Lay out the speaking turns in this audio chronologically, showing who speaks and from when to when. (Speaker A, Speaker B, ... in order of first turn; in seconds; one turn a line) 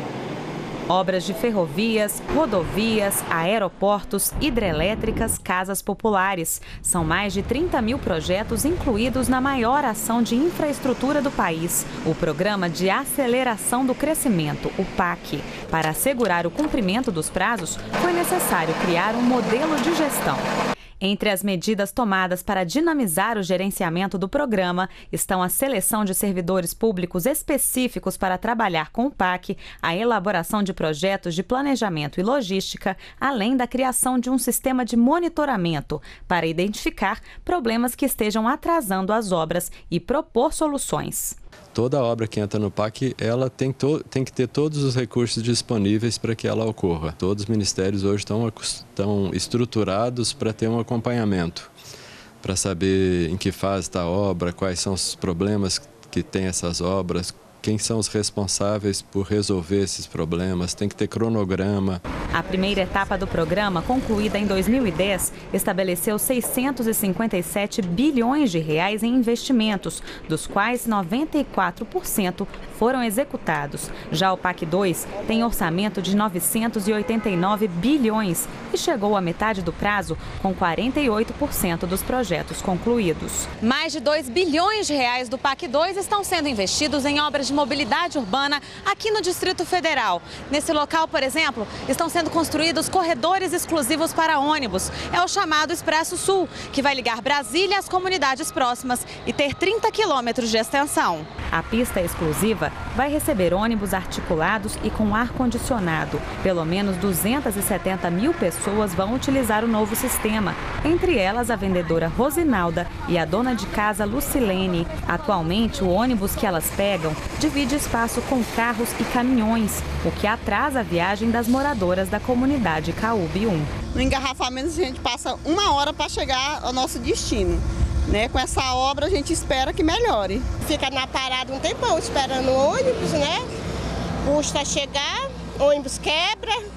Speaker A: 0.9-20.5
Speaker A: 21.0-41.4
Speaker B: 41.7-51.7
Speaker B: 52.4-62.0
Speaker A: 62.3-83.6
Speaker C: 83.6-101.3
Speaker A: 101.5-123.7
Speaker D: 123.9-130.6
Speaker E: 130.6-133.4
Speaker E: 134.2-136.6